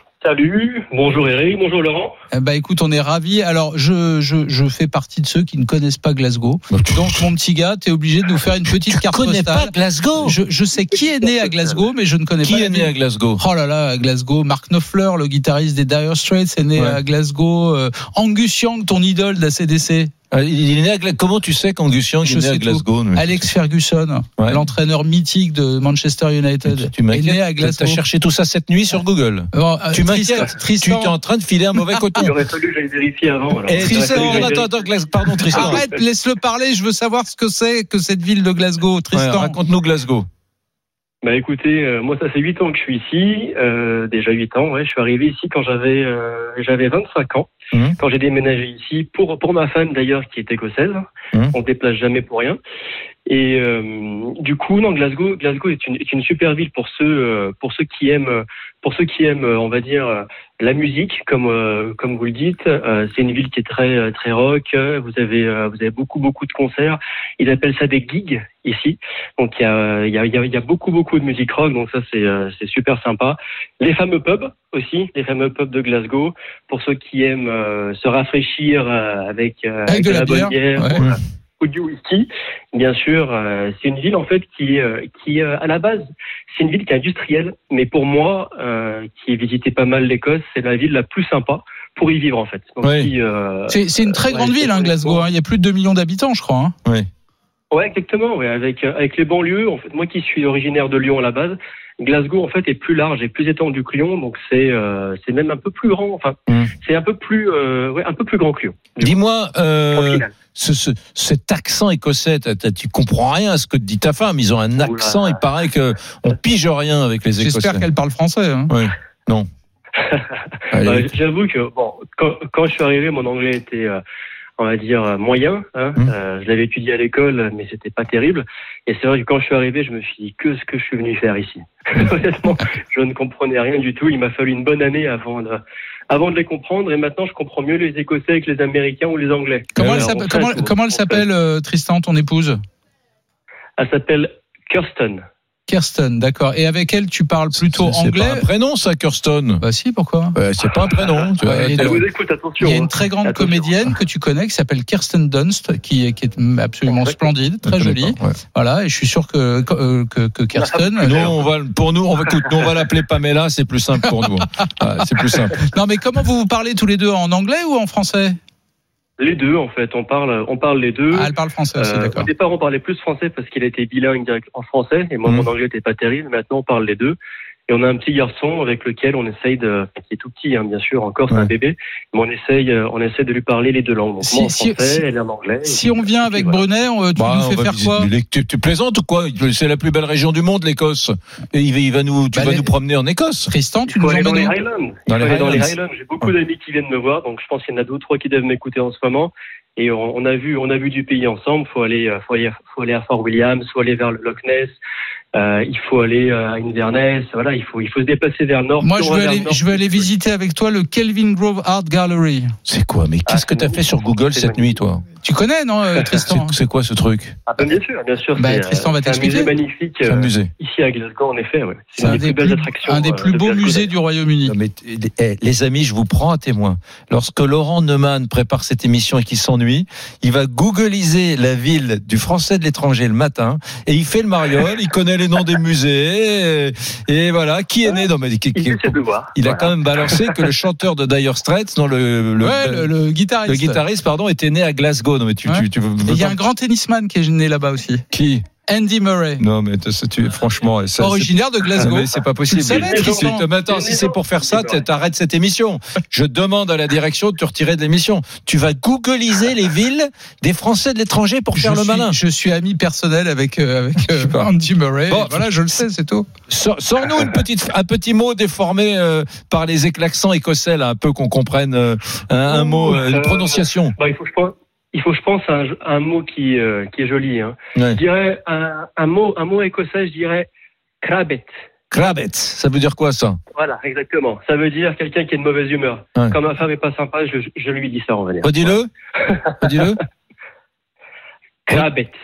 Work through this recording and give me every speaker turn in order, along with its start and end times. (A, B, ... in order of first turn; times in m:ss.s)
0:00.2-0:02.1 A
0:02.3-0:20.1 B
0:06.7-0:07.2 C
0:08.9-0:10.4 C
0:11.2-0:11.8 A
0:12.4-0:13.4 C
0:20.3-0:23.5 C
0:22.2-0:28.0 B
0:26.6-0:32.3 C
0:29.5-0:31.1 B
0:31.9-0:32.2 B
0:32.2-0:36.0 A
0:33.7-0:35.8 C
0:33.8-0:34.5 B
0:35.5-0:39.6 B
0:39.1-0:40.2 C
0:41.2-0:52.6 A
0:47.7-0:48.0 C
0:53.2-1:35.2 A
1:19.9-1:21.0 B
1:32.8-1:33.1 C
1:33.7-1:36.7 B
1:37.7-1:49.2 A
1:49.0-1:57.8 C
1:49.9-1:50.3 A
1:54.8-1:55.4 A
1:57.4-1:58.7 B
1:58.7-1:59.5 C
2:00.0-2:04.0 A
2:00.7-2:01.1 C
2:04.6-2:21.2 A
2:19.7-2:22.6 B
2:23.8-2:25.2 A
2:25.7-2:28.5 B
2:27.6-2:29.6 C
2:29.6-2:30.4 B
2:30.3-2:32.0 C
2:30.8-2:33.9 A
2:31.4-2:32.0 B
2:32.6-2:41.3 B
2:36.8-2:37.2 A
2:37.6-2:38.4 C
2:40.6-2:41.3 A
2:41.0-2:45.6 C
2:45.5-2:48.4 B
2:49.2-2:57.2 A
2:51.1-2:52.3 B
2:57.7-3:06.6 A
3:04.2-3:05.0 B
3:05.6-3:08.1 B
3:07.2-3:13.5 C
3:12.3-3:12.7 B
3:13.5-3:14.5 B
3:13.9-3:24.8 A
3:15.1-3:15.7 C
3:25.3-3:30.1 A
3:28.8-3:32.5 B
3:32.7-3:35.0 C
3:33.2-3:34.8 A
3:35.2-3:36.6 B
3:36.2-3:37.4 C
3:37.5-3:43.9 A
3:38.3-3:39.5 B
3:40.0-3:40.5 C
3:42.0-3:44.6 B
3:44.4-4:02.9 C
3:57.9-4:00.4 A
4:02.4-4:03.8 B
4:03.4-4:06.4 C
4:05.4-4:08.0 B
4:08.1-4:08.4 C
4:08.6-4:09.4 B
4:09.4-4:22.2 C
4:11.0-4:13.4 B
4:12.6-4:14.8 A
4:21.5-4:26.2 B
4:24.1-4:24.5 C
4:25.1-4:25.4 C
4:26.5-4:33.9 C
4:32.5-4:40.5 A
4:41.0-4:41.5 A
4:41.9-4:43.4 C
4:43.5-4:49.8 A
4:48.4-4:48.9 C
4:49.6-4:50.0 C
4:51.7-4:52.1 A